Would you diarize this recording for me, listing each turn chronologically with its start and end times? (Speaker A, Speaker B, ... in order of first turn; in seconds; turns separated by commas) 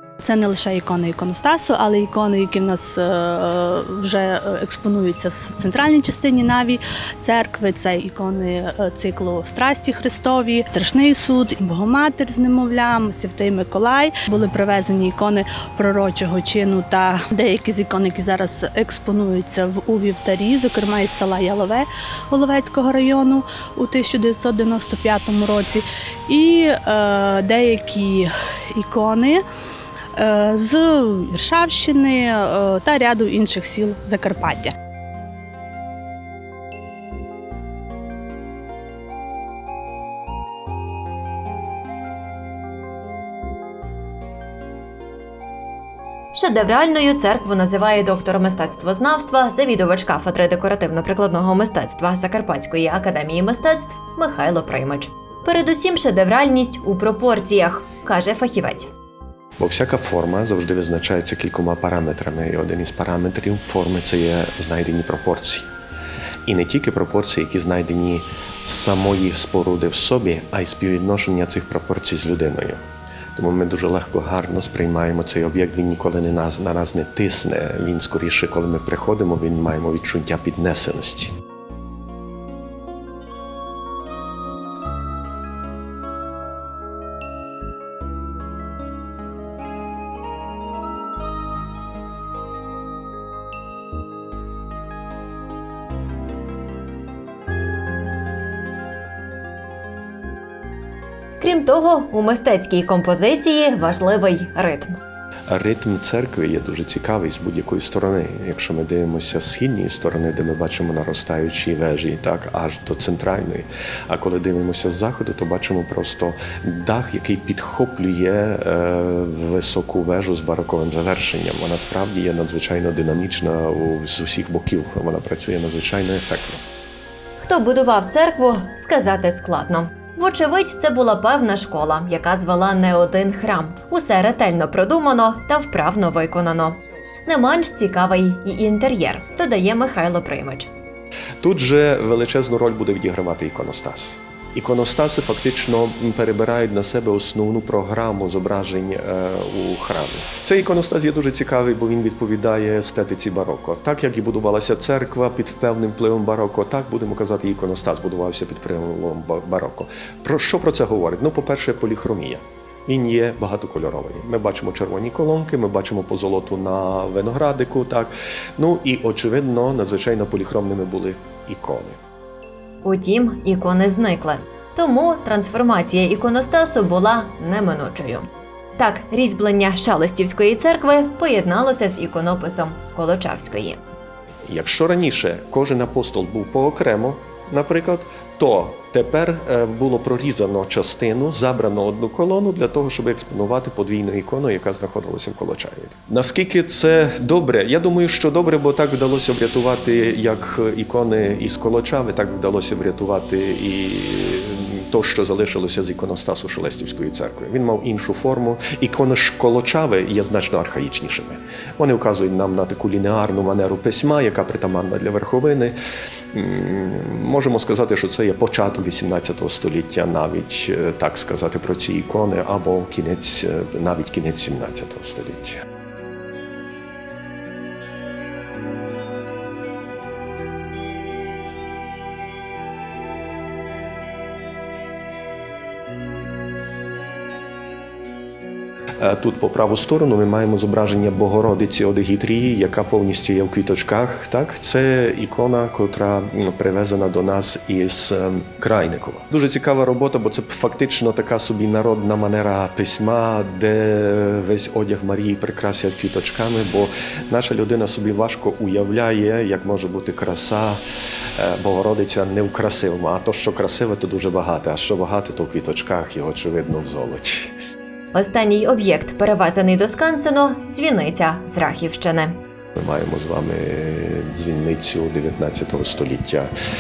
Speaker A: 0.2-29.4, Speaker A: 30.2-34.7, Speaker B: 46.3-58.9, Speaker C: 59.6-65.7, Speaker C: 66.5-72.8, Speaker C: 73.4-81.3, Speaker B: 101.4-105.0, Speaker C: 105.5-126.6, Speaker B: 127.4-140.7, Speaker C: 141.4-172.0, Speaker B: 172.8-178.3, Speaker B: 178.8-183.8, Speaker C: 184.5-215.8, Speaker C: 216.3-225.6, Speaker C: 239.0-260.8, Speaker C: 261.4-267.5, Speaker B: 268.1-272.4, Speaker C: 272.8-276.5